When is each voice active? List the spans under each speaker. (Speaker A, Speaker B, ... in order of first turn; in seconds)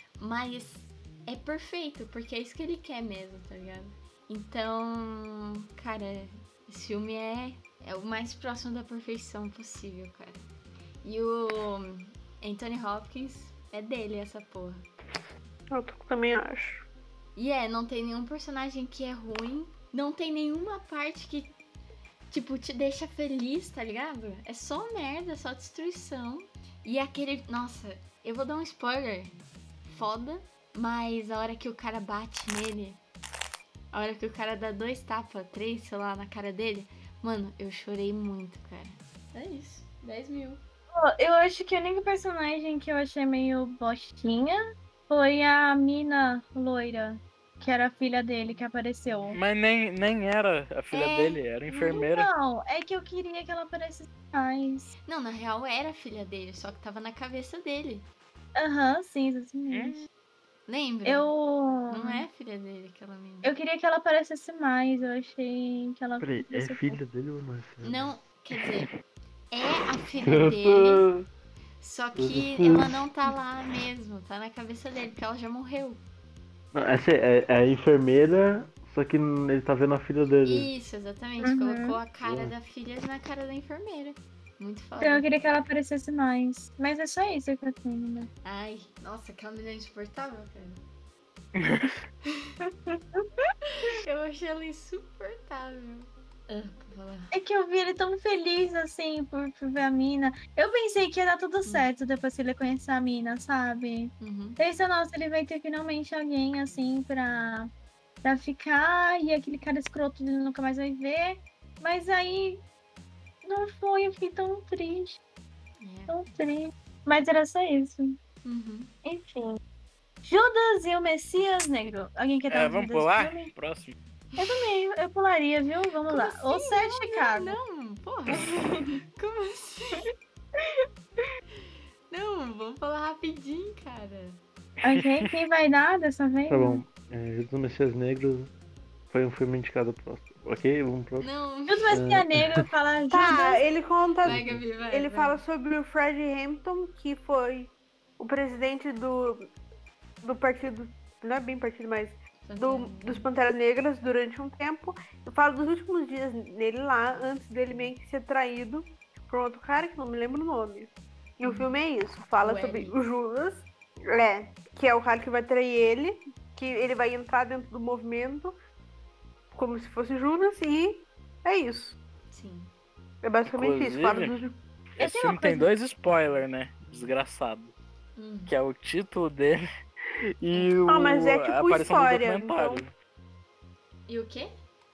Speaker A: 0.2-10.4, 11.0-14.9, 17.4-21.6, 22.3-29.3, 29.9-33.0, 33.9-40.6, 55.1-58.1, 60.7-61.3, 61.9-63.5, 67.8-68.9, 69.5-71.1, 71.8-76.0, 80.5-85.3, 88.5-90.8, 93.8-97.3, 104.2-104.6, 115.8-116.2, 118.4-118.9, 126.1-130.1, 132.1-134.4, 141.2-142.0, 144.2-145.4, 152.4-153.3, 161.4-161.8, 162.4-163.0, 172.3-172.7, 178.2-178.5, 180.5-180.8, 184.1-184.5
Speaker B: 15.7-16.9, 143.1-149.5, 150.2-168.6, 169.5-172.0, 173.2-174.6, 180.9-182.9
Speaker C: 41.0-49.4, 50.9-54.9, 58.6-60.1, 61.0-62.2, 63.4-67.0, 81.4-82.0, 85.0-88.3, 92.7-93.5, 97.3-107.7, 108.2-112.6, 113.5-115.2, 116.1-118.2, 119.0-119.6, 120.2-123.5, 124.4-127.6, 134.8-136.8, 141.7-143.6, 175.0-175.7
Speaker D: 49.3-52.3, 59.7-60.0, 91.5-92.0, 122.5-124.0, 134.9-135.3, 173.5-174.3, 175.0-177.7, 178.5-179.6, 180.4-182.9
Speaker E: 66.2-68.1, 70.2-71.3, 72.2-73.0, 76.7-80.7, 82.2-82.5, 136.5-138.5, 139.1-141.3, 141.9-142.6, 144.2-144.6